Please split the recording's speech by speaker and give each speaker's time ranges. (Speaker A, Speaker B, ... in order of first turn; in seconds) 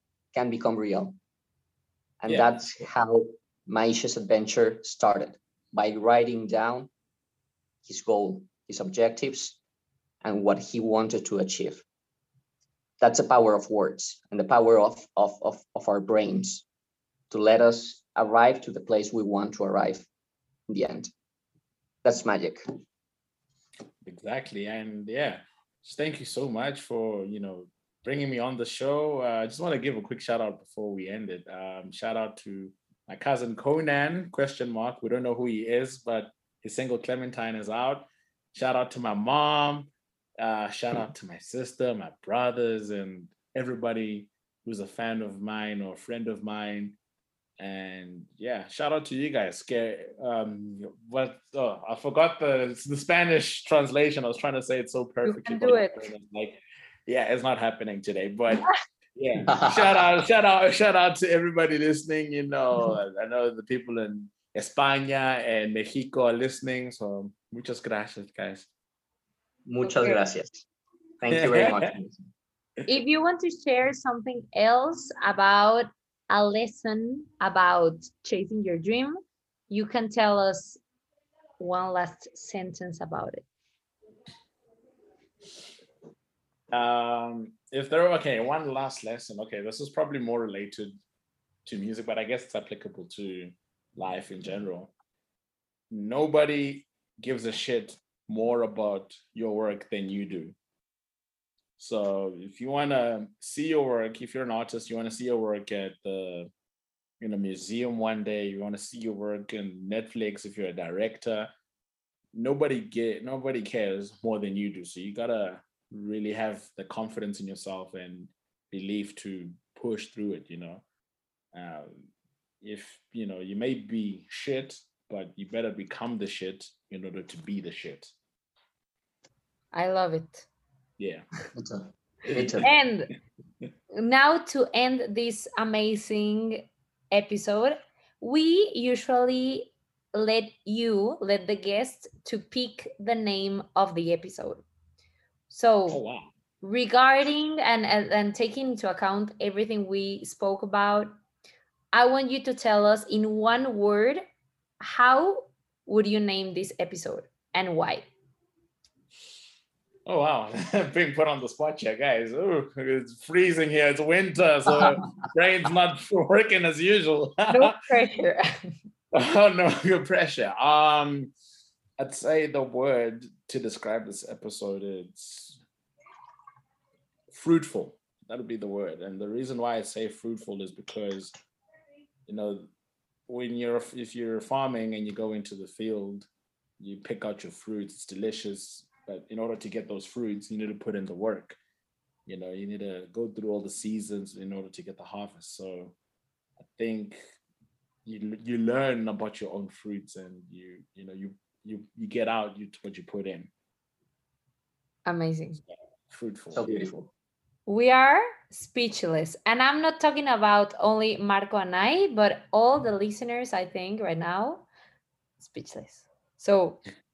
Speaker A: 0.3-1.2, 2.2-6.9, 7.8-9.6, 10.2-11.8, 13.0-16.6, 17.3-20.1, 20.7-21.1, 22.0-22.6, 59.5-60.0, 69.7-70.7, 71.2-72.2, 131.6-132.7, 206.5-207.1
Speaker B: 24.0-47.0, 47.6-68.7, 71.3-71.9, 86.7-91.0, 91.6-94.9, 95.9-100.5, 101.8-106.5, 107.2-111.5, 112.3-120.8, 121.5-128.1, 131.0-131.2, 132.3-132.7, 145.9-146.3, 160.1-167.8, 169.1-171.3, 172.0-175.6, 177.3-181.3, 182.3-182.7, 183.3-186.3, 186.8-191.6, 192.2-195.9, 196.6-197.2, 198.0-203.5, 205.7-207.0
Speaker C: 55.2-56.1, 69.8-70.2, 72.8-79.2, 79.7-80.8, 81.6-83.4, 129.7-130.5, 132.6-133.1, 133.9-144.6, 145.5-146.0, 146.6-151.1, 151.9-154.2, 154.8-158.1, 167.5-168.5, 205.1-205.6, 207.7-214.7, 215.4-216.8